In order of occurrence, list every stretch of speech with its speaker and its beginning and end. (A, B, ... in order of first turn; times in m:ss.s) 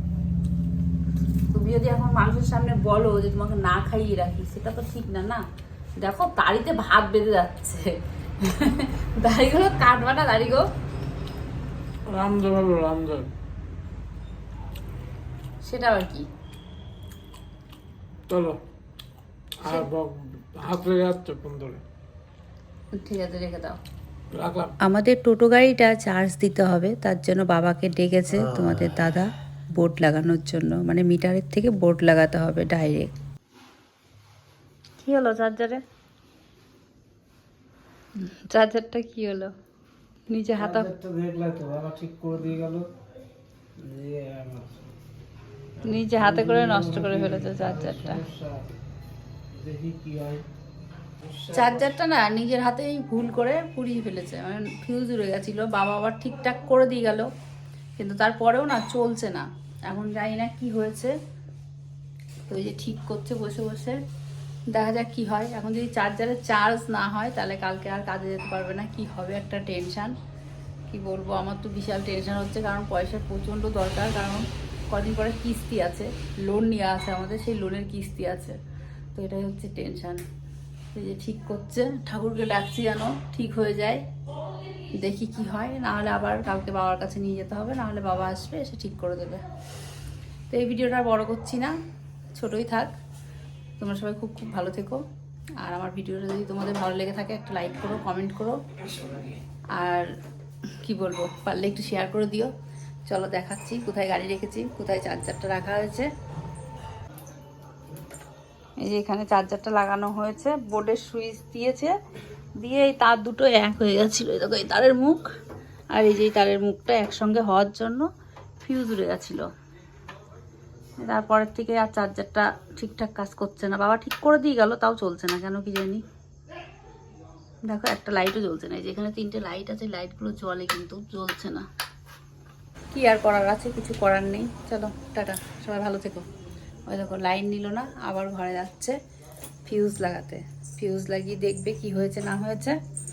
0:01.5-0:05.4 A
0:06.0-0:10.6 A
0:12.1-0:13.3 B
0:15.6-0:16.3 A
0:18.3-0:18.6 B
0:19.6-0:21.8 B
0:23.0-0:23.8 A
0:24.3-0:24.7 B
0:24.8-0:33.1 C
0:35.0-0:35.8 A
0:38.2-0:39.5 A
0:40.3-0:40.9 A
0:40.6-0:42.9 D
0:43.8-0:44.8 D
0:45.8-0:48.7 D
0:45.8-0:48.2 A
0:49.5-0:50.4 D
0:51.2-0:51.9 D
0:51.5-0:57.3 A
0:58.0-1:01.1 A
1:02.5-1:04.0 A
1:04.7-1:10.1 A
1:10.9-1:18.6 A
1:19.2-1:20.2 A
1:21.0-1:24.0 A
1:25.0-1:29.4 A
1:30.5-1:31.7 A
1:32.4-1:32.9 A
1:33.8-1:35.0 A
1:35.6-1:38.6 A
1:39.8-1:40.1 A
1:40.9-1:42.5 A
1:43.1-1:46.1 A
1:48.8-1:51.9 A
1:52.6-1:55.2 A
1:56.0-1:58.1 A
1:58.6-1:59.4 A
2:01.0-2:06.0 A
2:07.7-2:11.6 A
2:12.9-2:16.2 A
2:16.9-2:19.0 A
2:19.7-2:22.8 A